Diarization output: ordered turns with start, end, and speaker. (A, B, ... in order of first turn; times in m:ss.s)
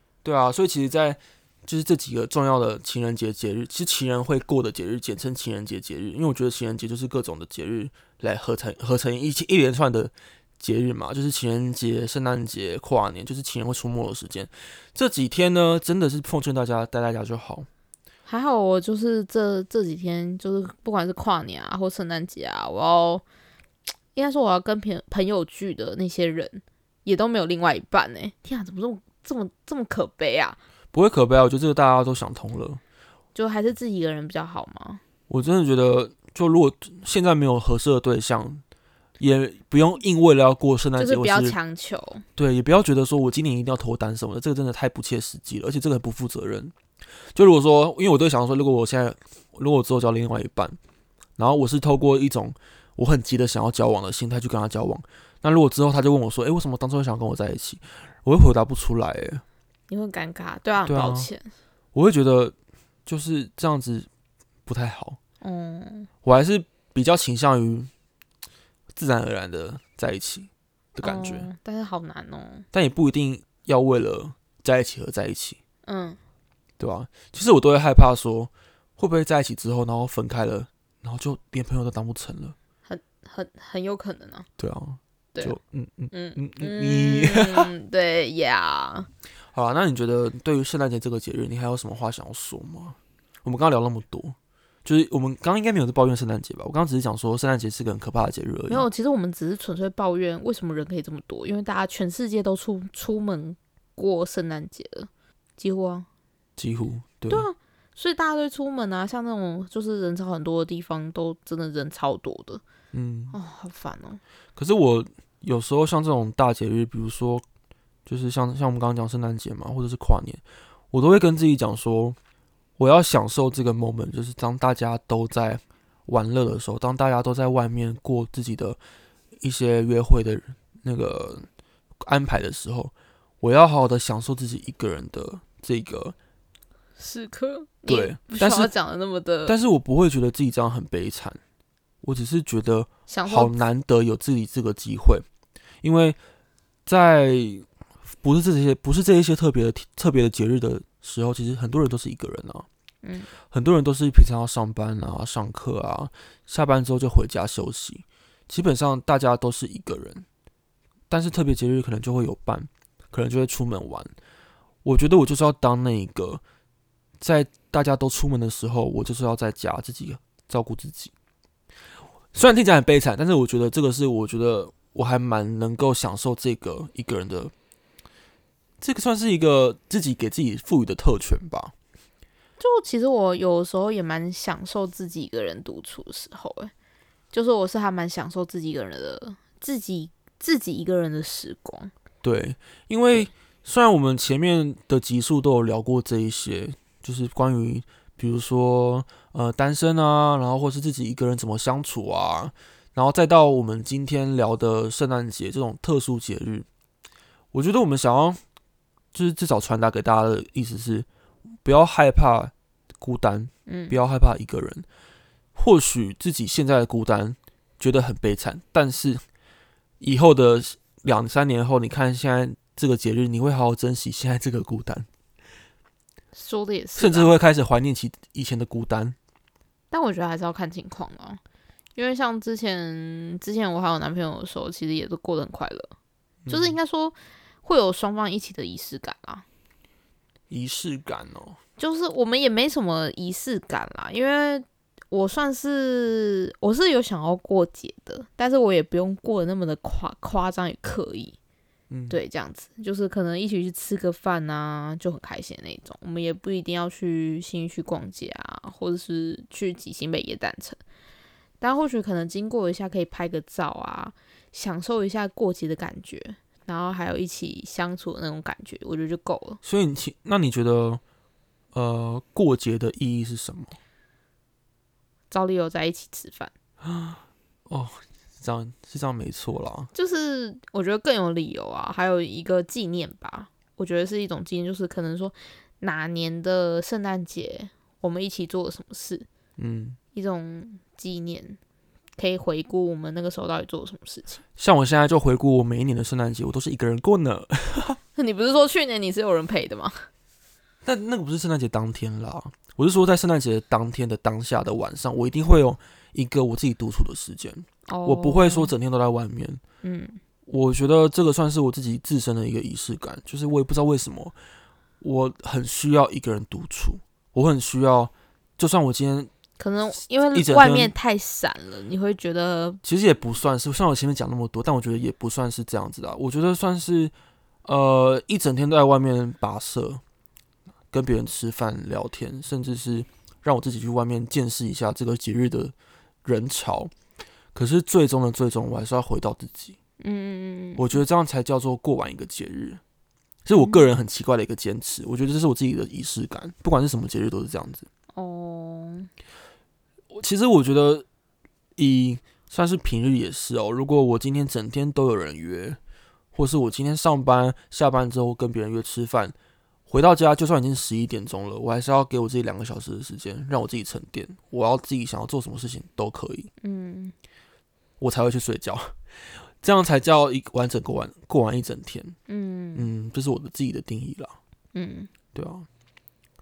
0:00.2-0:17.7 A
0:18.3-0:23.2 B
0:24.1-0:30.6 B
0:30.9-0:32.8 A
0:33.4-0:35.0 B
0:35.3-0:38.6 A
0:39.2-0:41.6 A
0:41.0-0:42.2 B
0:42.4-0:46.7 A
0:47.3-0:50.8 A
0:51.4-0:59.4 A
0:59.9-1:01.5 B
1:00.9-1:01.3 A
1:01.9-1:02.6 A
1:03.1-1:04.1 A
1:04.7-1:05.2 A
1:05.4-1:06.1 B
1:06.2-1:07.9 A
1:08.9-1:11.5 A
1:11.0-1:12.7 B
1:12.7-1:15.6 A
1:15.9-1:16.2 B
1:16.8-1:22.6 A
1:22.9-1:24.5 B
1:24.6-1:27.7 A
1:26.1-1:29.1 B
1:29.5-1:38.9 A
1:38.7-1:46.1 B
1:46.6-1:47.5 A
1:47.3-1:52.6 B
1:52.9-1:53.4 A
1:53.3-1:54.2 B
1:54.6-1:57.4 A
1:58.1-2:02.2 A
2:02.8-2:08.8 A
2:09.4-2:11.5 A
2:12.0-2:16.2 A
2:17.0-2:19.6 B
2:17.9-2:18.7 A
2:19.5-2:21.4 A
2:22.0-2:25.2 A
2:23.1-2:23.5 B
2:25.8-2:26.2 A
2:26.9-2:27.7 A
2:28.2-2:32.7 A
2:33.0-2:33.3 B
2:33.4-2:40.3 A
2:41.1-2:44.1 A
2:44.8-2:46.4 A
2:47.2-2:51.1 A
2:52.3-2:57.5 A
2:58.8-3:01.7 A
3:02.6-3:06.7 B
3:07.3-3:11.9 B
3:12.2-3:26.7 A
3:27.5-3:28.4 A
3:29.1-3:31.1 A
3:31.6-3:34.9 A
3:33.7-3:34.0 B
3:35.6-3:39.2 A
3:40.0-3:45.1 A
3:46.4-3:47.3 B
3:47.0-3:49.2 A
3:49.9-3:51.4 B
3:52.0-3:55.9 B
3:56.4-3:56.8 A
3:56.5-3:59.4 B
4:00.5-4:01.6 A
4:01.8-4:11.4 B
4:11.9-4:12.2 A
4:12.1-4:20.8 B
4:21.6-4:29.6 B
4:29.6-4:31.0 A
4:31.7-4:33.8 A
4:35.3-4:36.5 B
4:36.8-4:39.9 A
4:39.9-4:49.3 B
4:49.6-4:50.0 A
4:50.1-4:51.6 B
4:52.2-4:54.4 B
4:54.6-4:58.0 A
4:58.2-5:00.1 B
5:00.8-5:09.6 A
5:07.9-5:08.7 B
5:09.8-5:10.2 B
5:10.5-5:14.4 A
5:15.0-5:19.3 A
5:19.6-5:22.8 B
5:20.3-5:20.9 A
5:22.8-5:27.1 A
5:27.6-5:30.0 A
5:30.9-5:35.7 A
5:36.2-5:36.9 A
5:37.6-5:39.8 A
5:40.0-5:41.0 B
5:40.8-5:42.8 A
5:43.4-5:47.9 A
5:48.1-5:49.1 B
5:50.1-5:51.0 A
5:51.8-5:55.8 A
5:56.3-5:59.4 A
5:59.9-6:06.5 A
6:06.6-6:07.1 B
6:08.0-6:12.2 A
6:12.3-6:12.9 B
6:12.8-6:14.4 A
6:14.7-6:15.1 B
6:15.3-6:15.7 A